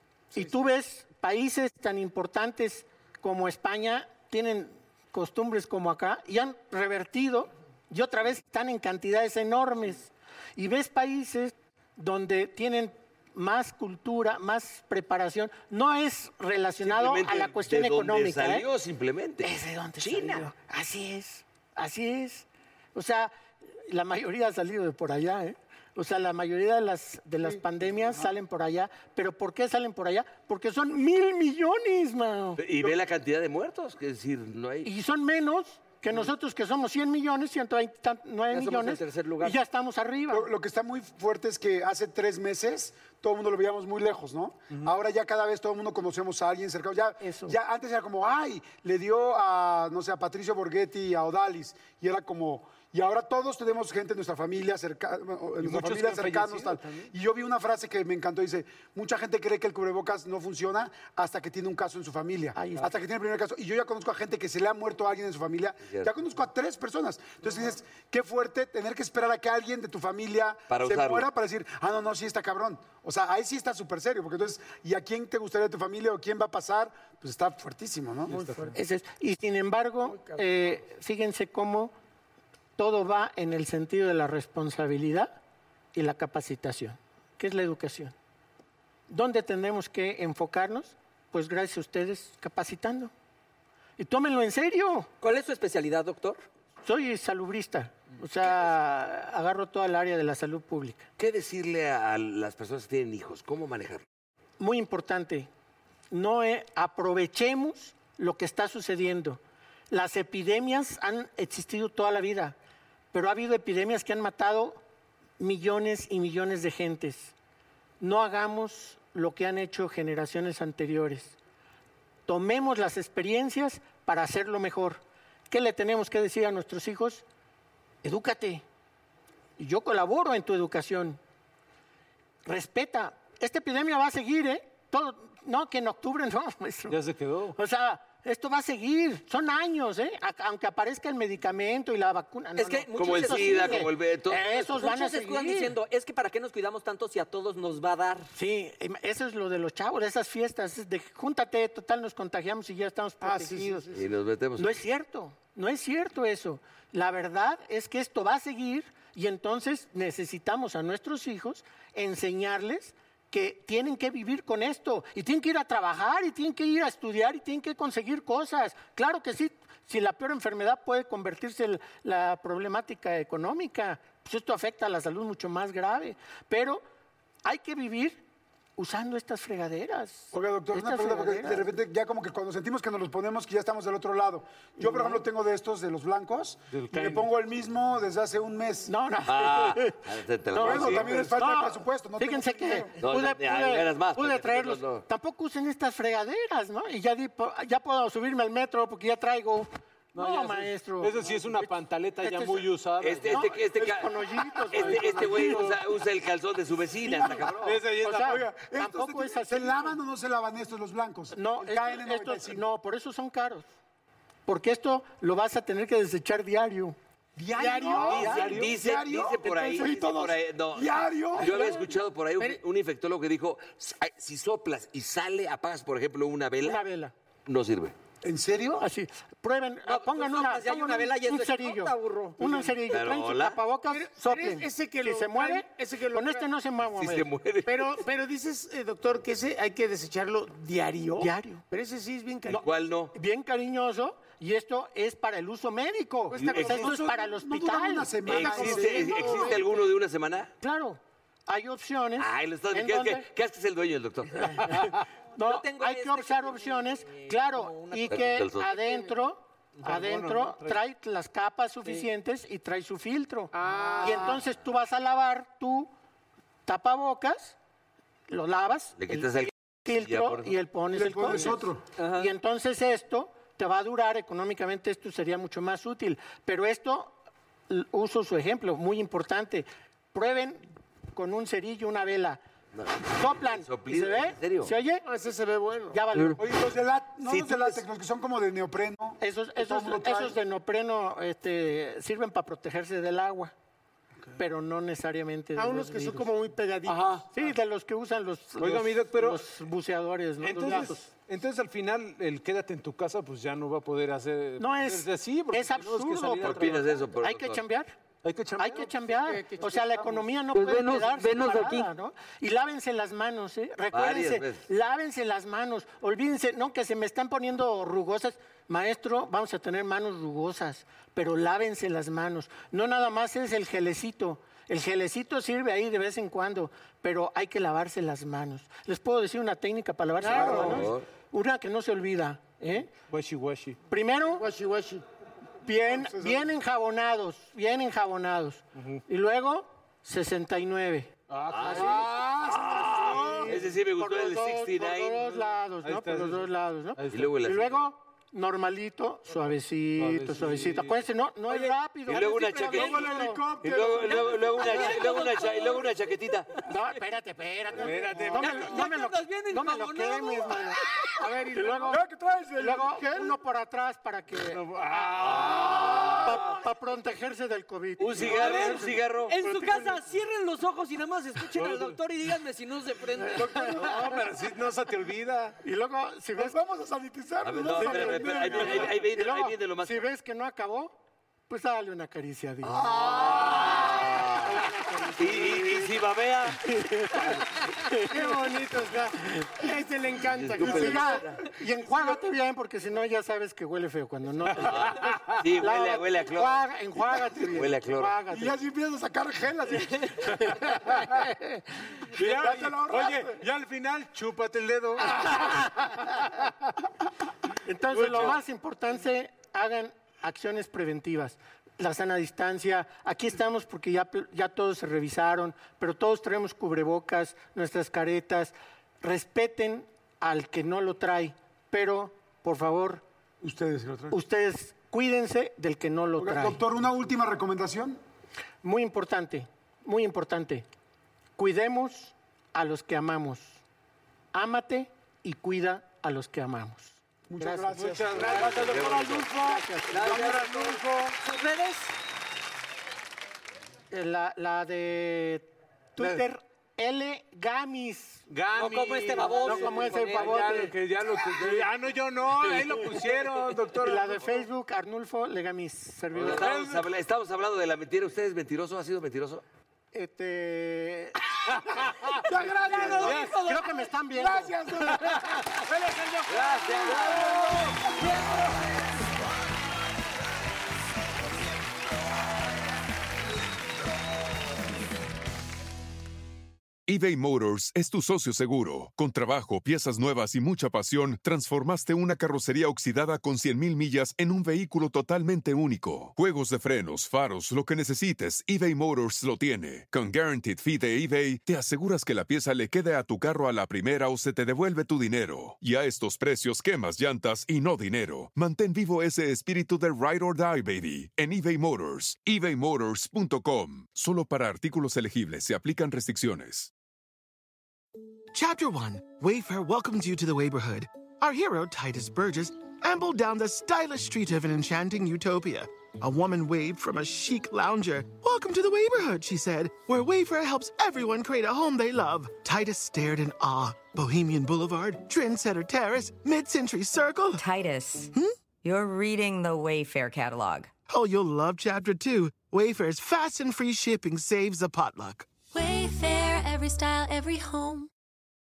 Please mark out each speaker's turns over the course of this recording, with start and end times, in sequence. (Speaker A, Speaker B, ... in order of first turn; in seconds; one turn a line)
Speaker A: 0.3-0.6
Speaker B: 0.3-18.7
Speaker C: 16.8-20.5
Speaker B: 19.4-23.3
Speaker B: 23.9-32.6
Speaker C: 32.6-34.9
Speaker B: 34.8-40.5
Speaker D: 38.5-39.6
Speaker E: 40.3-78.5
Speaker B: 47.2-47.6
Speaker F: 55.6-57.1
Speaker B: 62.5-62.9
Speaker C: 70.7-71.3
Speaker F: 78.3-78.7
Speaker A: 78.3-78.8
Speaker B: 78.8-81.9
Speaker A: 80.1-80.4
Speaker B: 82.8-85.4
Speaker B: 85.9-88.1
Speaker B: 89.1-93.1
Speaker B: 94.0-95.1
Speaker D: 95.2-96.4
Speaker B: 96.8-101.1
Speaker C: 101.2-104.0
Speaker B: 104.6-105.5
Speaker B: 106.1-112.5
Speaker B: 113.1-114.8
Speaker B: 115.4-117.3
Speaker B: 118.0-121.4
Speaker B: 122.3-127.2
Speaker B: 128.0-128.6
Speaker B: 129.6-131.2
Speaker B: 132.5-137.0
Speaker F: 136.9-137.6
Speaker B: 137.6-145.8
Speaker D: 142.6-143.9
Speaker C: 142.9-144.7
Speaker D: 144.6-148.3
Speaker B: 148.3-153.9
Speaker A: 153.2-154.0
Speaker C: 153.9-154.8
Speaker B: 154.6-176.8
Speaker B: 177.4-178.2
Speaker B: 178.8-181.7
Speaker E: 180.3-188.9
Speaker B: 184.8-185.2
Speaker F: 186.7-187.3
Speaker B: 188.9-202.7
Speaker C: 189.3-191.3
Speaker E: 190.6-192.9
Speaker F: 190.8-191.3
Speaker C: 193.0-195.1
Speaker F: 200.2-203.5
Speaker C: 203.0-204.2
Speaker B: 203.3-205.8
Speaker C: 204.7-207.8
Speaker F: 204.7-205.8
Speaker B: 207.1-207.4
Speaker F: 207.6-208.6
Speaker B: 207.9-210.0
Speaker E: 208.2-212.6
Speaker B: 211.3-213.7
Speaker B: 214.5-217.0
Speaker E: 217.4-221.9
Speaker A: 217.6-218.3
Speaker C: 217.9-226.8
Speaker F: 218.4-218.7
Speaker B: 226.6-227.1
Speaker C: 227.5-227.9
Speaker E: 228.2-228.9
Speaker B: 228.8-237.3
Speaker D: 229.8-232.7
Speaker C: 232.9-233.6
Speaker A: 233.9-236.5
Speaker C: 236.9-238.0
Speaker A: 237.7-242.6
Speaker B: 241.2-241.6
Speaker C: 242.5-243.1
Speaker B: 242.5-248.4
Speaker A: 246.3-247.0
Speaker C: 246.3-246.8
Speaker E: 246.5-249.6
Speaker C: 248.2-250.5
Speaker A: 248.4-249.7
Speaker B: 250.6-253.3
Speaker C: 252.2-254.6
Speaker B: 255.4-265.9
Speaker D: 255.4-258.4
Speaker C: 258.1-258.8
Speaker F: 259.8-260.8
Speaker A: 263.5-264.4
Speaker B: 266.7-267.6
Speaker B: 268.3-277.2
Speaker C: 269.0-270.6
Speaker E: 270.9-271.8
Speaker D: 272.0-272.3
Speaker B: 277.7-282.4
Speaker C: 282.7-284.8
Speaker B: 283.1-285.0
Speaker A: 285.0-286.0
Speaker B: 285.9-286.4
Speaker E: 286.4-290.4
Speaker B: 289.2-293.5
Speaker B: 294.4-296.3
Speaker A: 295.6-297.2
Speaker E: 296.9-297.3
Speaker B: 297.3-301.1
Speaker F: 298.6-299.4
Speaker F: 300.4-306.9
Speaker B: 304.6-307.9
Speaker C: 306.4-307.6
Speaker F: 308.2-309.0
Speaker B: 308.6-332.9
Speaker A: 309.1-310.2
Speaker D: 310.5-311.9
Speaker C: 313.9-314.7
Speaker A: 330.2-330.7
Speaker E: 330.3-330.8
Speaker C: 330.5-331.1
Speaker F: 333.1-333.8
Speaker B: 333.9-334.4
Speaker A: 334.4-335.1
Speaker B: 335.7-341.1
Speaker F: 341.3-342.0
Speaker C: 341.5-345.3
Speaker B: 341.7-342.0
Speaker A: 341.8-343.4
Speaker B: 343.3-353.5
Speaker F: 345.8-347.3
Speaker C: 347.1-347.9
Speaker F: 350.0-351.0
Speaker C: 352.1-356.5
Speaker E: 352.7-354.3
Speaker D: 354.0-355.9
Speaker B: 356.7-362.0
Speaker F: 357.8-358.6
Speaker D: 358.3-360.7
Speaker A: 361.2-362.0
Speaker E: 361.9-363.3
Speaker B: 362.6-368.6
Speaker F: 364.5-365.7
Speaker C: 365.4-366.4
Speaker C: 368.0-369.4
Speaker D: 368.2-374.0
Speaker F: 368.3-368.6
Speaker F: 371.6-371.9
Speaker E: 373.4-373.8
Speaker F: 373.6-375.6
Speaker B: 375.6-376.6
Speaker E: 376.4-379.0
Speaker C: 377.4-380.1
Speaker B: 377.8-381.0
Speaker B: 381.5-386.0
Speaker C: 382.6-386.6
Speaker B: 387.9-389.1
Speaker A: 388.1-391.1
Speaker C: 390.3-391.4
Speaker E: 390.6-392.2
Speaker B: 390.9-398.5
Speaker C: 394.5-396.7
Speaker C: 397.3-398.2
Speaker E: 398.3-400.8
Speaker F: 402.1-405.4
Speaker E: 402.1-403.4
Speaker B: 405.2-405.6
Speaker B: 407.6-423.0
Speaker F: 407.9-408.4
Speaker E: 423.4-424.2
Speaker B: 424.1-426.6
Speaker E: 426.2-428.0
Speaker B: 428.6-430.7
Speaker B: 431.4-433.6
Speaker B: 434.3-440.4
Speaker E: 437.3-439.3
Speaker F: 437.7-439.1
Speaker C: 438.2-439.4
Speaker D: 439.9-441.9
Speaker F: 440.1-441.0
Speaker E: 440.1-440.5
Speaker B: 443.9-448.3
Speaker F: 448.3-454.4
Speaker D: 448.5-450.6
Speaker B: 449.3-450.7
Speaker B: 453.8-456.5
Speaker C: 456.1-459.4
Speaker F: 456.2-456.8
Speaker B: 459.9-461.2
Speaker E: 462.4-462.9
Speaker A: 462.4-462.9
Speaker B: 462.7-464.7
Speaker D: 462.9-463.7
Speaker F: 463.0-463.4
Speaker E: 464.2-464.9
Speaker C: 466.3-467.8
Speaker D: 468.0-468.3
Speaker G: 476.9-506.7
Speaker H: 508.3-527.4
Speaker I: 527.4-530.7
Speaker H: 530.9-535.3
Speaker J: 535.5-537.9